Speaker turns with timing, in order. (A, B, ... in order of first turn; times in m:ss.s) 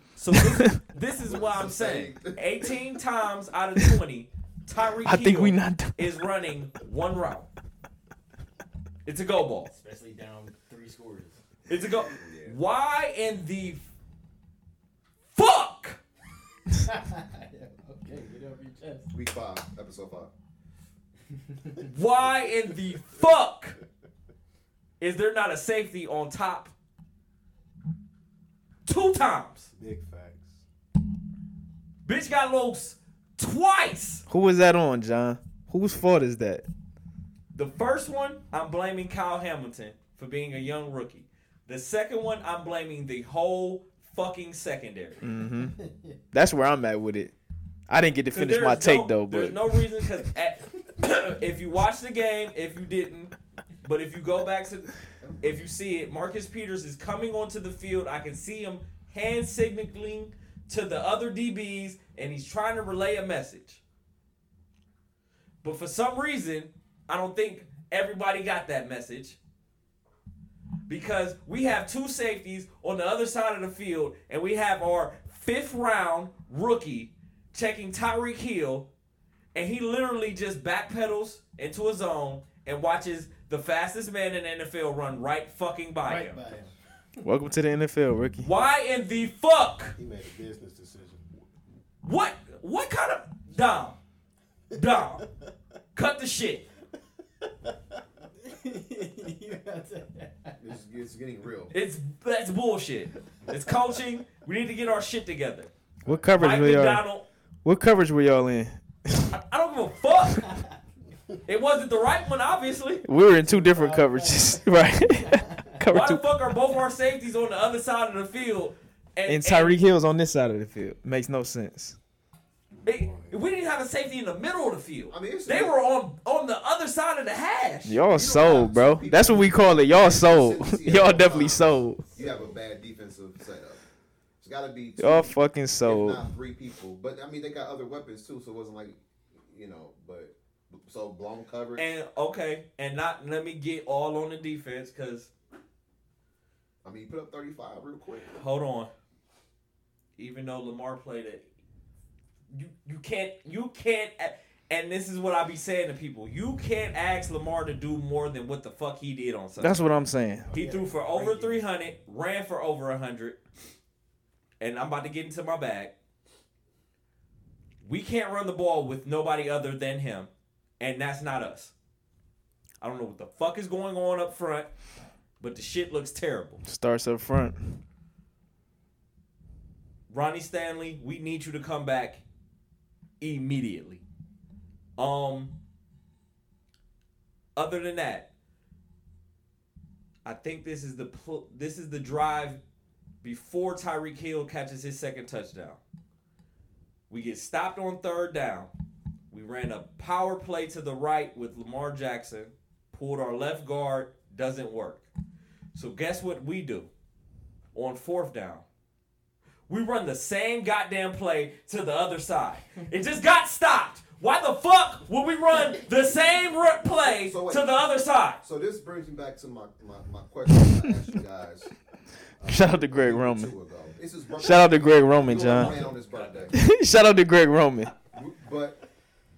0:00.2-0:07.5 A
0:00.3-0:00.8 B
0:01.3-0:02.8 C
0:05.0-0:06.1 B
0:09.0-0:09.7 A
0:09.7-0:11.4 D
0:11.7-0:13.8 A
0:12.2-0:12.6 C
0:15.3-0:16.0 A
0:16.7-0:19.1 D
0:19.1-0:20.3 C
0:21.3-0:21.8 D
0:21.8-0:23.8 A
0:25.0-0:26.7 A
0:28.9-0:29.7 A
0:29.8-0:30.6 E
0:32.0-0:34.2 A
0:34.3-0:36.7 B
0:37.5-0:45.2 A
0:45.2-0:45.8 B
0:45.6-0:46.2 D
0:46.3-0:47.3 B
0:47.9-0:49.8 B
0:48.3-0:53.3 A
0:53.8-1:03.8 A
0:55.2-0:55.7 C
1:05.6-1:09.4 A
1:10.9-1:18.9 A
1:19.5-1:26.4 A
1:26.0-1:26.7 D
1:27.2-1:28.5 B
1:28.4-1:30.0 A
1:30.0-1:31.2 E
1:32.0-1:34.0 A
1:34.7-1:35.2 A
1:36.0-1:36.6 A
1:38.4-1:40.6 D
1:40.6-1:41.7 C
1:41.7-1:45.7 A
1:46.1-1:46.3 E
1:46.1-1:47.0 B
1:46.4-1:47.2 A
1:47.6-1:49.3 B
1:49.3-1:50.5 A
1:51.5-1:53.0 A
1:53.0-1:56.2 B
1:53.4-1:55.8 D
1:55.9-1:59.8 A
1:59.3-2:02.0 B
2:02.8-2:08.0 A
2:03.0-2:03.4 E
2:05.1-2:05.8 C
2:07.9-2:12.1 B
2:08.1-2:13.8 C
2:12.2-2:12.5 E
2:14.4-2:21.9 C
2:15.0-2:16.2 B
2:21.8-2:25.3 A
2:26.8-2:28.3 C
2:28.2-2:28.9 A
2:30.2-2:31.4 A
2:32.5-2:39.8 A
2:39.6-2:40.5 B
2:40.5-2:41.6 D
2:40.5-2:43.4 A
2:44.6-2:45.9 A
2:47.8-2:51.7 A
2:52.8-2:54.7 A
2:55.4-2:56.6 A
2:56.6-2:57.8 B
3:00.1-3:02.2 A
3:03.2-3:04.0 A
3:05.0-3:05.5 A
3:07.6-3:08.3 A
3:10.2-3:12.6 A
3:13.2-3:15.8 A
3:17.1-3:18.7 A
3:19.3-3:25.0 A
3:25.7-3:26.9 A
3:27.7-3:28.6 A
3:29.7-3:38.4 A
3:36.8-3:37.7 C
3:38.4-3:41.7 C
3:40.6-3:40.9 B
3:42.4-3:46.6 C
3:42.5-3:43.5 B
3:44.4-3:45.8 B
3:45.5-3:46.5 A
3:46.5-3:47.9 B
3:48.1-3:48.8 C